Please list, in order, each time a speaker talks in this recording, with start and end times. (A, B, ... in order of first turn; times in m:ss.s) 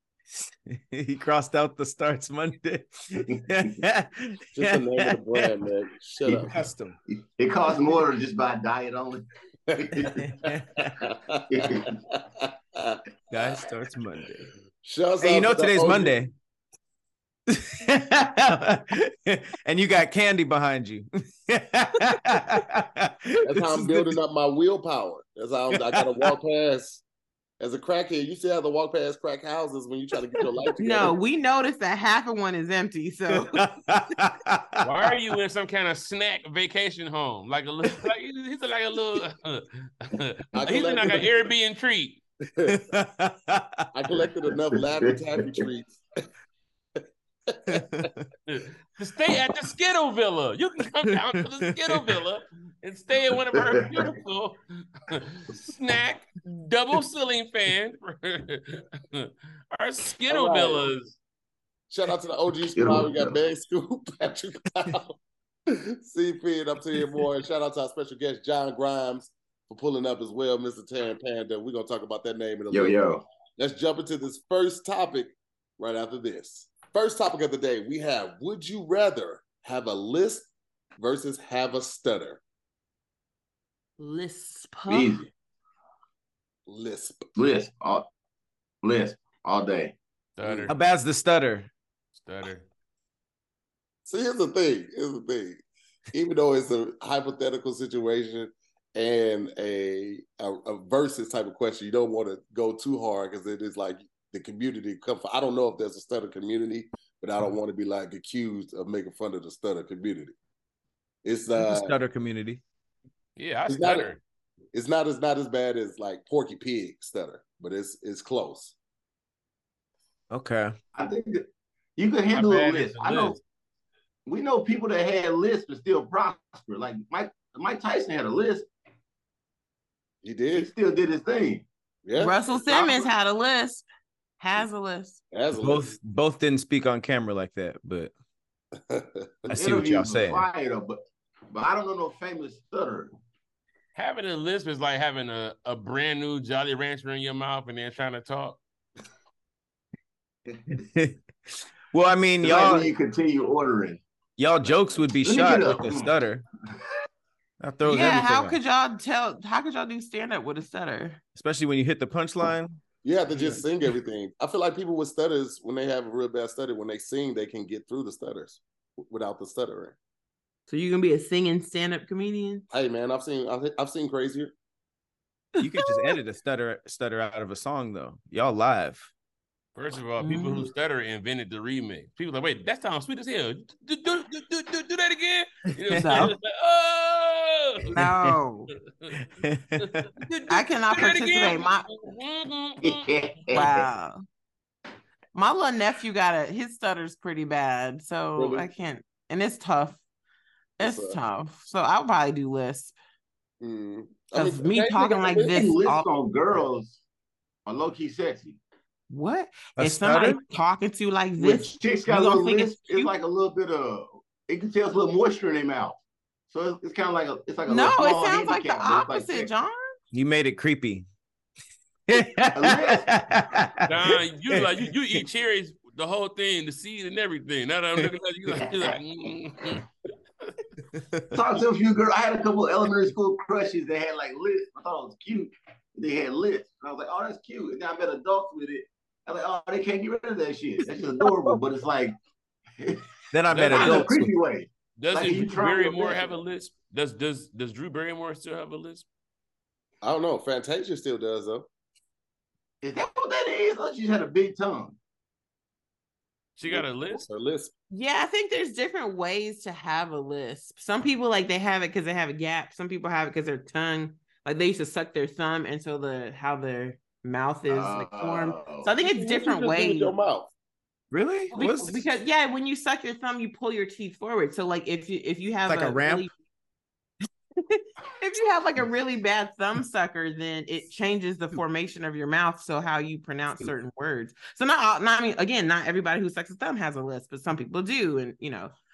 0:00.4-0:05.5 A
0:04.6-0:06.6 B
0:06.3-0:07.0 A
0:07.4-0:10.4 C
0:09.7-0:13.0 B
0:10.2-0:10.9 A
0:11.5-0:11.9 C
0:13.3-0:14.5 A
0:14.8-0:16.2 B
0:15.2-0:16.3 A
0:17.5-0:24.2 A
0:23.4-0:27.0 B
0:25.7-0:26.3 A
0:27.6-0:31.2 B
0:30.8-0:33.6 D
0:33.3-0:35.0 A
0:34.8-0:42.2 E
0:40.5-0:41.3 B
0:42.4-0:42.8 B
0:42.7-0:43.9 A
0:43.9-0:46.0 B
0:44.5-0:45.7 C
0:47.5-0:47.8 B
0:47.7-0:48.3 A
0:48.5-1:01.2 E
0:51.8-0:52.2 A
0:53.6-0:54.0 C
1:00.3-1:00.9 B
1:01.9-1:13.0 B
1:02.8-1:03.4 C
1:12.7-1:13.2 C
1:13.6-1:22.4 B
1:24.0-1:25.2 D
1:24.9-1:25.3 C
1:26.7-1:27.3 B
1:27.4-1:28.0 C
1:28.8-1:30.0 C
1:30.4-1:30.8 E
1:30.4-1:30.7 B
1:30.7-1:31.7 A
1:32.2-1:32.7 E
1:34.1-1:50.4 B
1:51.2-1:52.0 B
1:51.5-1:52.6 A
1:53.4-1:54.2 E
1:53.7-1:54.1 B
1:54.7-1:58.8 B
2:00.3-2:00.8 A
2:01.0-2:03.4 C
2:02.3-2:03.4 E
2:04.3-2:08.7 C
2:10.2-2:10.7 B
2:10.5-2:11.7 C
2:12.0-2:12.4 B
2:12.2-2:13.9 D
2:12.7-2:13.1 C
2:14.4-2:15.2 D
2:15.3-2:16.0 B
2:15.6-2:18.1 A
2:18.9-2:19.6 B
2:19.5-2:20.5 A
2:19.5-2:21.0 C
2:21.5-2:23.1 C
2:24.0-2:28.6 E
2:30.7-2:31.2 A
2:31.9-2:32.9 A
2:32.4-2:34.0 C
2:34.4-2:36.4 A
2:35.2-2:36.1 C
2:37.6-2:38.6 A
2:37.9-2:41.2 D
2:41.4-2:42.8 A
2:43.0-2:50.0 B
2:50.7-2:52.6 D
2:52.7-2:54.5 B
2:55.6-2:56.1 D
2:55.6-2:59.1 A
2:59.8-3:07.9 E
3:00.2-3:00.7 D
3:05.9-3:06.3 A
3:05.9-3:06.3 D
3:07.9-3:08.7 D
3:08.0-3:08.4 A
3:09.4-3:10.1 A
3:09.8-3:13.7 E
3:10.5-3:11.9 D
3:12.8-3:13.7 C
3:13.5-3:14.2 D
3:15.4-3:20.0 D
3:18.4-3:18.7 B
3:20.8-3:23.0 D
3:20.8-3:21.2 B
3:23.6-3:25.6 B
3:24.3-3:26.1 D
3:25.4-3:27.0 C
3:27.7-3:28.6 C
3:29.1-3:33.1 D
3:29.8-3:30.4 A
3:31.4-3:36.0 C
3:36.5-3:39.5 C
3:37.6-3:39.9 D
3:40.1-3:41.1 A
3:42.1-3:45.2 A
3:42.6-3:43.2 C
3:43.9-3:49.9 E
3:48.5-3:49.0 C
3:50.9-3:51.3 A
3:51.3-4:02.1 C
4:01.2-4:01.5 A
4:03.3-4:04.3 A
4:03.5-4:04.0 E
4:03.7-4:06.4 C
4:05.0-4:09.1 E
4:10.0-4:11.7 B
4:12.8-4:15.0 C
4:16.6-4:17.3 E
4:16.7-4:17.7 B
4:17.9-4:30.1 D
4:27.7-4:29.0 C
4:29.1-4:30.5 B
4:31.1-4:32.0 A
4:31.5-4:36.3 D
4:35.7-4:36.3 A
4:37.6-4:48.7 D